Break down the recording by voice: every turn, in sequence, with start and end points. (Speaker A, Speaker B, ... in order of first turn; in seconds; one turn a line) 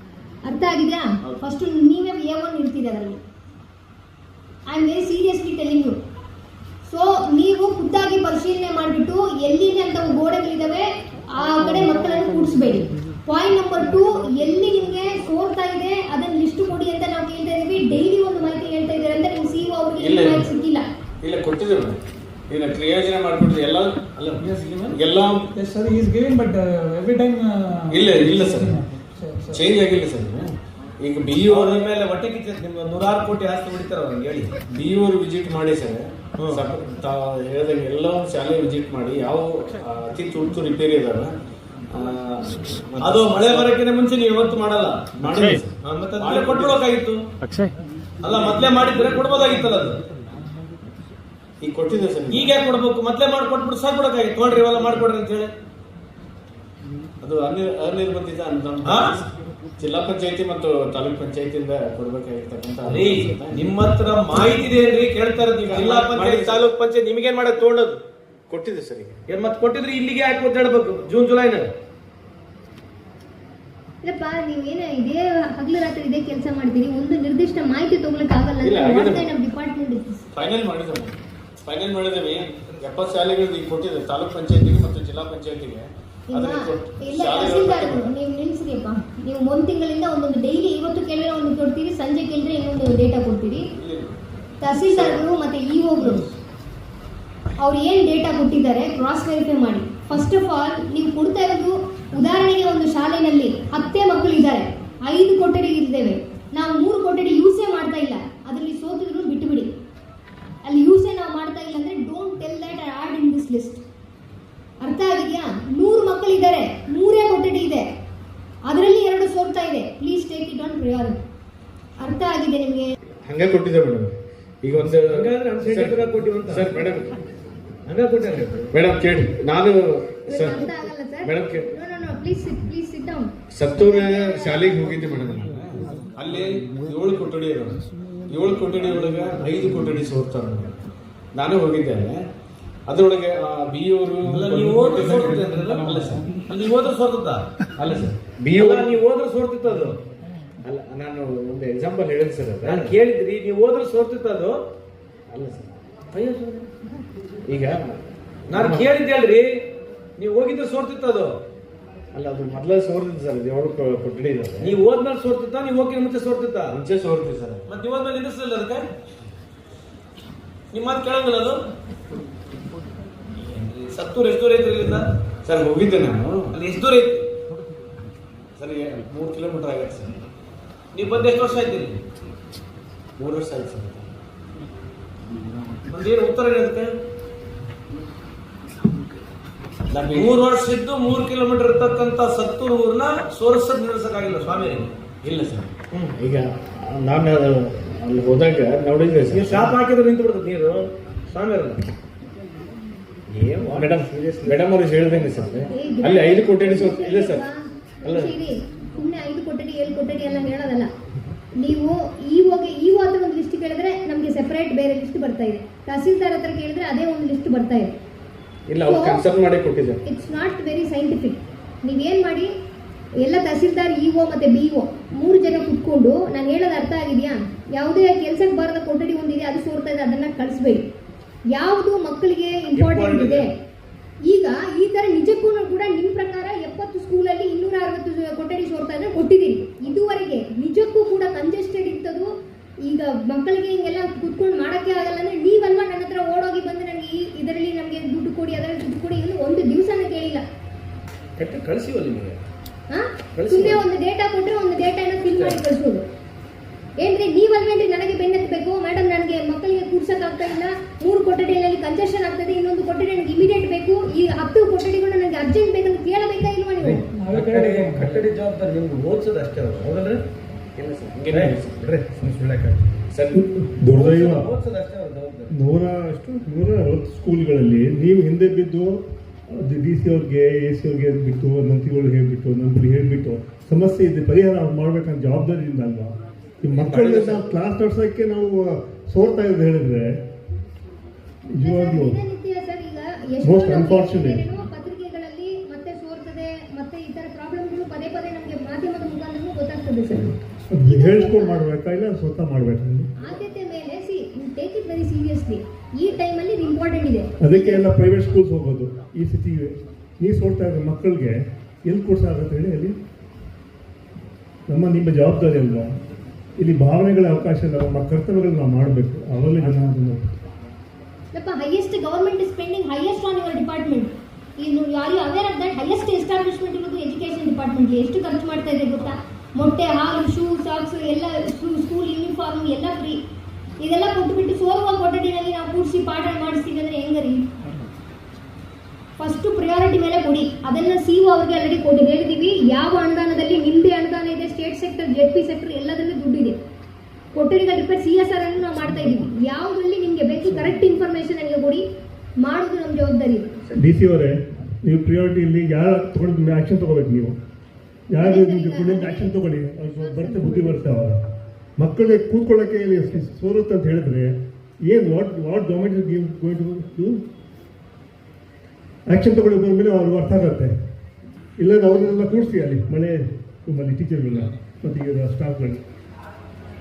Speaker A: 0.4-3.2
Speaker A: 4.7-6.0
Speaker A: 6.8-20.9
Speaker B: 20.0-20.5
Speaker B: 21.2-25.5
Speaker C: 24.4-25.0
Speaker C: 25.5-29.6
Speaker B: 27.9-28.8
Speaker B: 29.5-30.5
Speaker B: 31.0-31.9
Speaker D: 31.4-34.5
Speaker B: 34.7-41.3
Speaker D: 36.4-36.7
Speaker B: 41.9-43.7
Speaker D: 43.0-47.2
Speaker B: 45.2-46.8
Speaker D: 48.2-50.0
Speaker B: 51.6-52.5
Speaker D: 52.3-55.5
Speaker B: 57.2-59.3
Speaker D: 58.8-59.1
Speaker B: 59.8-63.6
Speaker D: 62.8-68.0
Speaker B: 65.7-66.6
Speaker B: 68.5-69.2
Speaker D: 69.3-71.7
Speaker A: 74.0-80.3
Speaker B: 78.6-79.3
Speaker B: 80.4-88.1
Speaker D: 82.4-83.2
Speaker A: 86.3-93.7
Speaker B: 93.8-94.2
Speaker A: 94.6-96.3
Speaker B: 94.9-95.2
Speaker A: 97.6-109.7
Speaker A: 110.6-113.8
Speaker A: 114.8-117.9
Speaker A: 118.7-121.2
Speaker A: 122.0-122.9
Speaker B: 123.1-127.2
Speaker D: 125.1-126.8
Speaker D: 127.9-128.7
Speaker B: 128.7-131.7
Speaker A: 130.3-134.8
Speaker B: 133.5-142.2
Speaker B: 142.9-146.4
Speaker D: 144.2-150.0
Speaker B: 147.8-149.0
Speaker B: 150.7-152.9
Speaker D: 152.6-154.6
Speaker B: 155.3-155.8
Speaker D: 156.1-156.7
Speaker B: 157.5-158.9
Speaker D: 158.5-159.7
Speaker D: 160.2-161.4
Speaker B: 162.1-164.8
Speaker D: 164.6-166.8
Speaker B: 166.7-167.7
Speaker D: 167.7-168.9
Speaker D: 170.7-171.6
Speaker D: 173.9-175.1
Speaker B: 175.4-176.5
Speaker D: 176.5-177.3
Speaker B: 178.6-180.2
Speaker D: 180.9-182.0
Speaker B: 183.2-184.1
Speaker D: 185.9-186.9
Speaker B: 189.9-190.4
Speaker D: 190.1-194.9
Speaker B: 195.2-199.7
Speaker D: 199.3-201.8
Speaker D: 203.3-204.6
Speaker B: 203.7-207.5
Speaker A: 205.7-210.9
Speaker B: 208.1-208.3
Speaker A: 211.6-217.9
Speaker B: 218.7-220.0
Speaker A: 218.8-219.2
Speaker A: 220.1-222.5
Speaker A: 223.2-230.9
Speaker A: 231.5-233.5
Speaker D: 232.7-233.5
Speaker A: 234.2-250.4
Speaker D: 251.4-252.4
Speaker A: 252.9-256.0
Speaker D: 253.3-253.8
Speaker D: 255.3-255.6
Speaker A: 257.0-267.1
Speaker D: 266.9-270.2
Speaker C: 266.9-268.2
Speaker B: 270.8-271.9
Speaker D: 271.3-273.0
Speaker B: 273.1-273.4
Speaker E: 273.3-274.5
Speaker D: 273.8-275.5
Speaker E: 275.5-290.2
Speaker D: 286.9-287.4
Speaker E: 291.5-292.2
Speaker A: 291.6-301.6
Speaker E: 293.4-294.5
Speaker E: 300.7-303.1
Speaker A: 303.2-307.9
Speaker E: 307.4-313.0
Speaker E: 314.7-315.9
Speaker E: 316.6-320.4
Speaker A: 321.3-333.2
Speaker A: 333.8-337.5
Speaker A: 339.2-346.6
Speaker A: 347.3-351.9
Speaker A: 352.4-353.5
Speaker E: 353.7-357.4
Speaker E: 358.1-361.2
Speaker A: 358.2-359.4
Speaker A: 359.9-360.9
Speaker E: 361.8-367.2
Speaker E: 369.1-370.7
Speaker E: 371.6-375.8